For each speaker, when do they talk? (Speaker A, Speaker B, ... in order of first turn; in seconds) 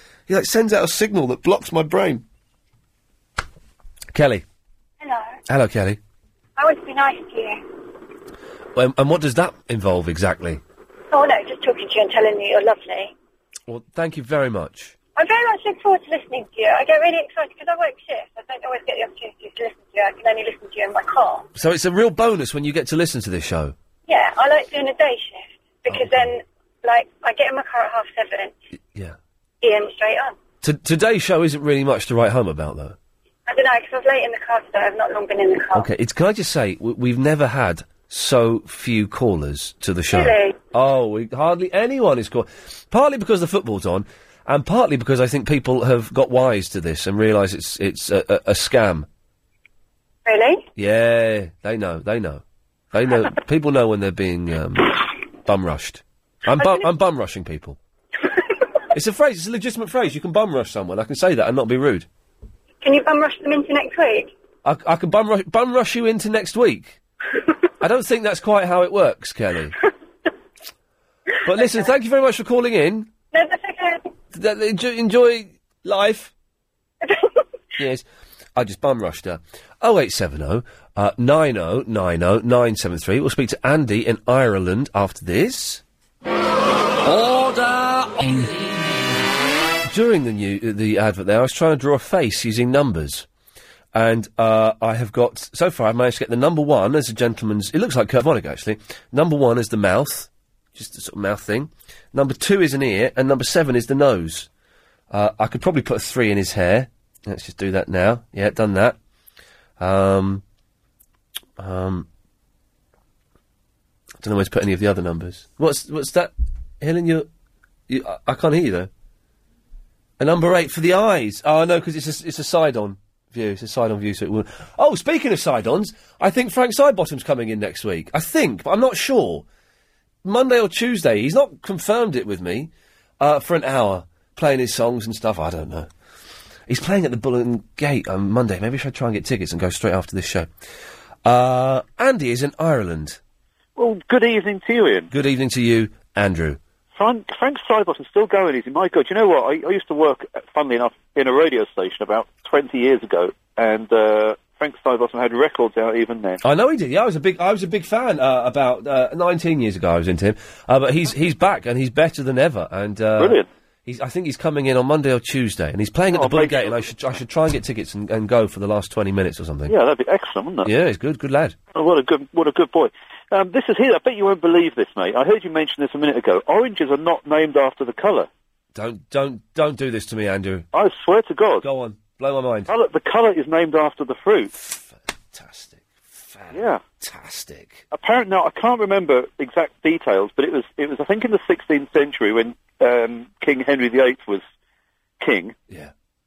Speaker A: 0.3-2.2, 4.1-4.4, 5.5-6.0, 8.7-10.6, 13.7-14.9, 21.5-23.7, 25.9-26.3, 30.6-33.0, 35.7-49.1, 50.8-57.8, 58.9-62.0, 64.6-67.0, 67.8-69.8, 71.4-73.1, 74.3-76.3, 77.8-78.0, 78.5-85.8, 87.1-88.1, 89.9-93.2, 93.9-104.5, 105.1-109.0, 109.8-110.4, 111.6-112.1, 114.2-117.3, 117.9-118.9, 120.2-129.4, 130.2-135.9, 136.7-140.5, 141.2-143.2, 145.1-146.6, 156.4-169.7, 170.6-171.6, 178.7-180.7, 181.6-182.7, 184.5-187.8
Speaker B: 6.6-7.6, 11.1-13.1, 15.2-21.4, 24.1-28.5, 29.6-30.3, 33.5-35.9, 40.1-40.5, 50.2-50.6, 62.8-64.3, 73.3-74.1, 77.0-77.3
Speaker C: 143.8-145.1, 146.9-156.4, 163.2-163.5, 166.1-166.9, 169.7-170.7, 171.7-178.3, 180.7-181.7, 182.7-184.5, 186.5-186.8, 187.9-194.4, 195.2-195.6